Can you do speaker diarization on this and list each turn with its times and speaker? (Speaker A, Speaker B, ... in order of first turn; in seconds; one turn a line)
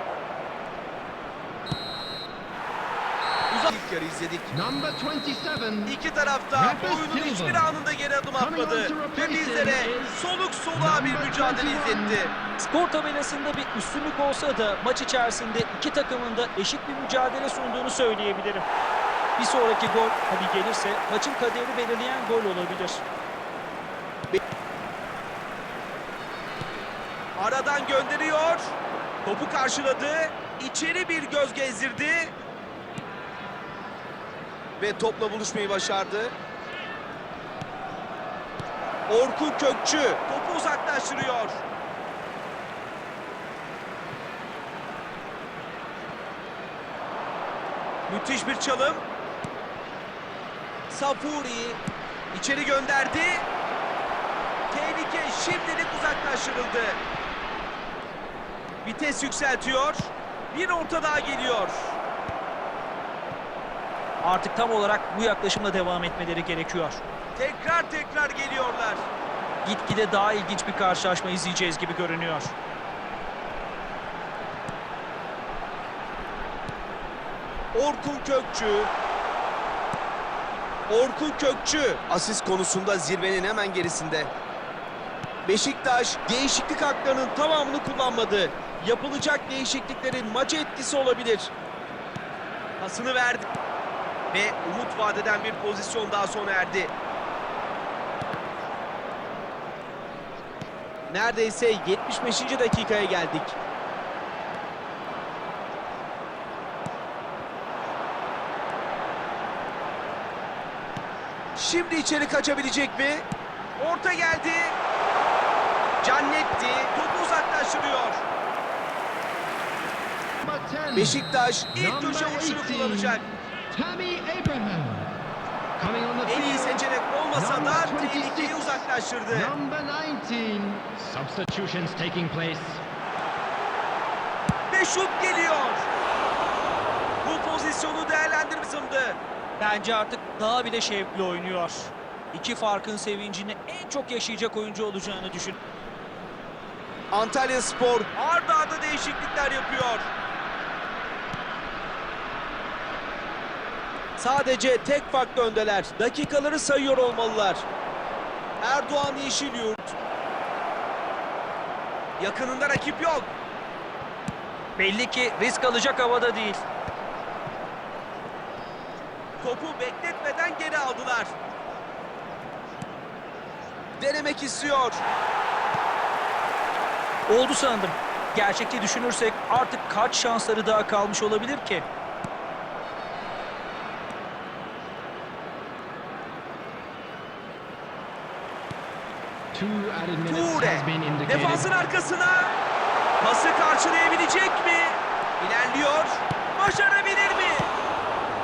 Speaker A: 3.5-4.5
Speaker B: 4.5-6.0
Speaker A: 5.8-12.3
Speaker B: 6.5-7.7
Speaker B: 8.4-12.3
Speaker C: 12.6-18.6
Speaker C: 19.4-23.0
Speaker A: 27.4-32.3
Speaker A: 34.8-36.3
Speaker A: 39.1-41.6
Speaker A: 48.1-49.0
Speaker A: 50.9-51.8
Speaker A: 52.3-53.5
Speaker A: 54.7-57.0
Speaker A: 58.8-62.0
Speaker C: 64.2-67.0
Speaker A: 67.3-69.1
Speaker C: 69.6-72.5
Speaker A: 77.7-78.9
Speaker A: 80.9-84.3
Speaker A: 85.5-91.5
Speaker A: 92.8-93.5
Speaker A: 94.3-96.9
Speaker A: 101.1-103.5
Speaker A: 111.5-113.2
Speaker A: 113.8-114.8
Speaker A: 116.0-118.2
Speaker B: 120.4-121.2
Speaker A: 120.9-123.2
Speaker B: 121.7-125.1
Speaker B: 125.8-132.8
Speaker A: 126.2-129.5
Speaker A: 134.7-135.9
Speaker A: 137.2-139.2
Speaker C: 139.6-145.6
Speaker A: 147.1-150.1
Speaker A: 154.2-157.6
Speaker A: 158.6-159.9
Speaker A: 162.2-163.3
Speaker C: 164.8-166.6
Speaker A: 169.4-171.3
Speaker A: 174.0-175.0
Speaker C: 177.3-181.8
Speaker B: 189.5-191.8
Speaker A: 190.2-192.5
Speaker A: 193.2-197.7